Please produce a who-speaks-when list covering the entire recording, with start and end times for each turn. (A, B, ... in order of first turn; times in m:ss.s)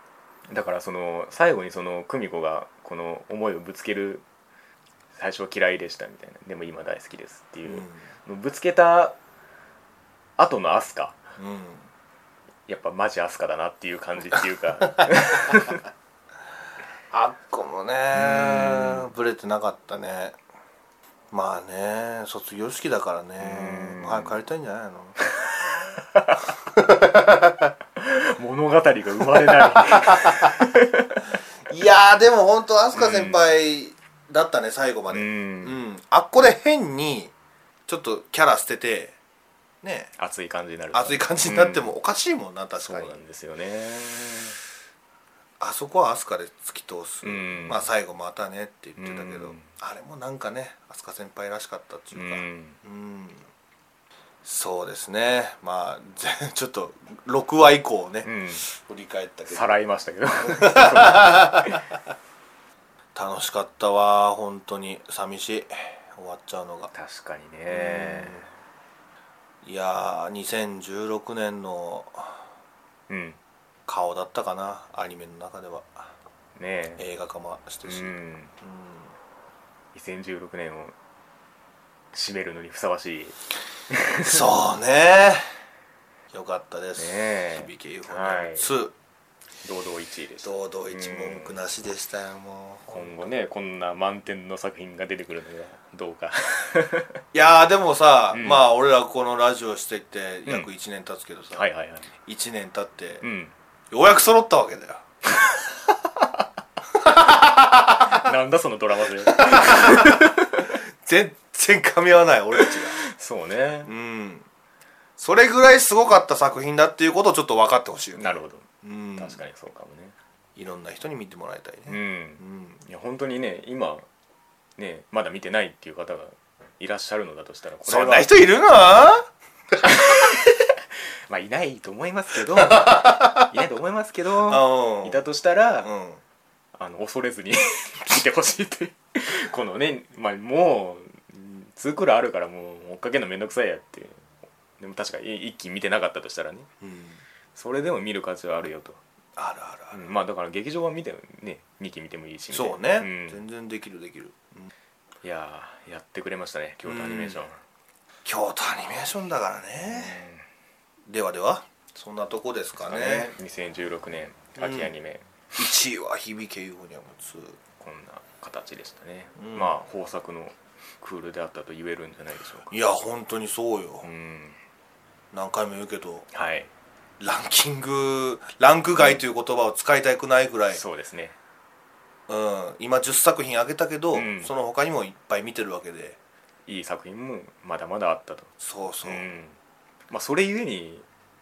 0:00.5-0:04.2 A
0:05.2-0:09.2 A
0:07.7-0:08.0 B
0:10.4-0:11.2 A
0:11.4-0:11.9 B
0:12.7-0:15.8 A
0:17.1-0:20.4 B
0:18.1-0:19.1 A
0:21.3-0:25.2 B
0:23.4-0:24.4 A
0:25.3-0:26.4 A
0:26.7-0:27.7 B
0:28.0-0:31.2 A
0:29.4-0:30.6 B
0:31.7-0:37.3 B
0:33.0-0:33.5 A
0:35.1-0:35.8 A
0:37.9-0:39.2 B
0:39.8-0:40.1 B
0:40.2-0:41.9 A
0:40.9-0:43.2 B
0:42.8-0:44.6 A
0:45.6-0:53.5 B
0:47.2-0:47.9 A
0:49.0-0:49.7 A
0:52.1-0:52.8 A
0:54.4-0:59.8 B
0:58.2-0:58.6 A
0:59.5-1:01.8 A
1:00.4-1:01.8 B
1:03.2-1:06.9 B
1:06.9-1:08.5 A
1:07.7-1:08.5 B
1:09.6-1:12.4 B
1:13.1-1:13.4 A
1:13.9-1:16.0 B
1:16.6-1:17.0 A
1:17.0-1:19.1 B
1:17.8-1:18.5 A
1:19.9-1:20.9 A
1:22.1-1:23.4 A
1:23.9-1:24.5 A
1:24.2-1:25.5 B
1:26.3-1:28.9 B
1:27.0-1:28.7 A
1:29.6-1:31.6 A
1:30.4-1:33.1 B
1:32.9-1:37.2 A
1:37.3-1:41.6 B
1:38.3-1:38.6 A
1:41.5-1:42.1 A
1:42.2-1:43.2 B
1:43.2-1:43.5 A
1:43.9-1:45.0 B
1:46.9-1:48.3 B
1:48.1-1:50.6 A
1:49.2-1:53.0 B
1:52.6-1:53.9 A
1:53.8-1:54.5 B
1:55.2-1:59.4 B
1:58.2-2:00.1 A
2:00.6-2:02.8 B
2:01.9-2:04.1 A
2:04.8-2:08.3 A
2:07.8-2:10.5 B
2:09.8-2:10.4 A
2:11.3-2:15.9 A
2:12.5-2:13.5 B
2:14.5-2:15.3 B
2:15.8-2:16.2 B
2:16.8-2:24.2 A
2:24.8-2:26.7 A
2:26.8-2:27.2 B
2:27.6-2:29.0 A
2:29.4-2:30.0 B
2:29.9-2:33.4 A
2:32.5-2:34.7 B
2:35.2-2:37.6 A
2:36.9-2:37.4 B
2:38.2-2:40.3 B
2:39.8-2:40.4 A
2:41.1-2:43.3 B
2:42.8-2:45.2 A
2:44.6-2:44.9 B
2:45.6-2:47.6 B
2:47.8-2:52.7 A
2:49.4-2:49.8 B
2:52.7-2:54.1 B
2:54.0-2:54.6 A
2:55.3-2:56.3 B
2:56.3-2:56.7 A
2:57.2-3:00.8 B
3:00.7-3:01.4 A
3:02.3-3:06.2 B
3:04.1-3:04.5 A
3:06.7-3:08.5 A
3:08.6-3:09.2 B
3:09.0-3:09.6 A
3:10.1-3:11.1 A